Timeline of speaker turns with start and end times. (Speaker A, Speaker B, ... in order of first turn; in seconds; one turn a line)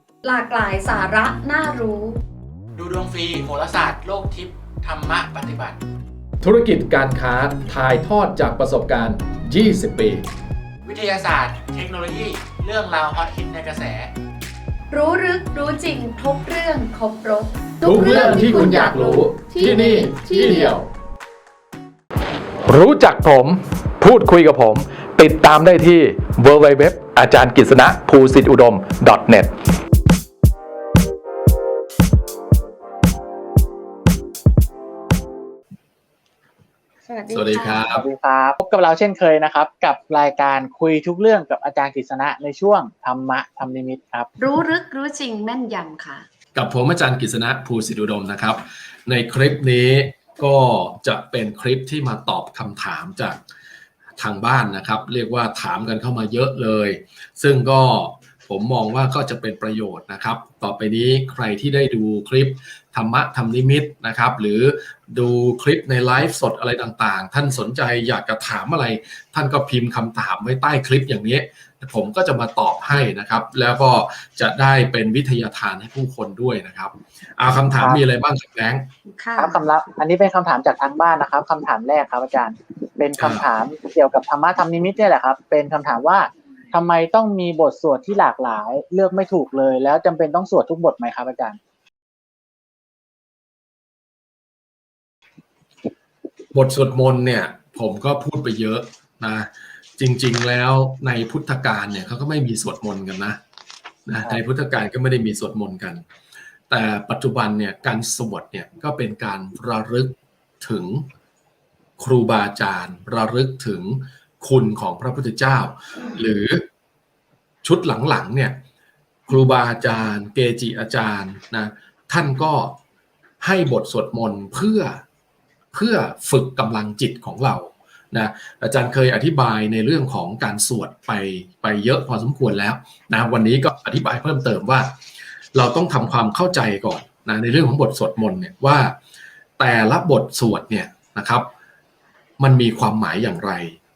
Speaker A: 0.2-2.2
Speaker B: 2.8-5.8
Speaker C: 6.4-10.2
Speaker B: 10.8-14.1
Speaker A: 14.9-20.8
Speaker C: 17.8-20.9
Speaker C: 22.7-29.5
Speaker A: 37.0-37.8
Speaker C: 37.3-38.0
Speaker D: 37.9-44.3
Speaker A: 44.4-46.2
Speaker C: 46.5-53.4
Speaker C: 54.2-78.9
Speaker D: 77.7-78.0
Speaker A: 79.1-79.6
Speaker D: 79.4-91.6
Speaker C: 83.2-83.5
Speaker C: 96.5-103.4
Speaker C: 104.0-106.0
Speaker C: 106.7-111.0
Speaker C: 112.0-116.6
Speaker C: 117.6-118.6
Speaker C: 119.3-122.8
Speaker C: 123.4-125.0
Speaker C: 125.7-134.9
Speaker C: 135.5-139.0
Speaker C: 139.6-141.5
Speaker C: 142.4-143.8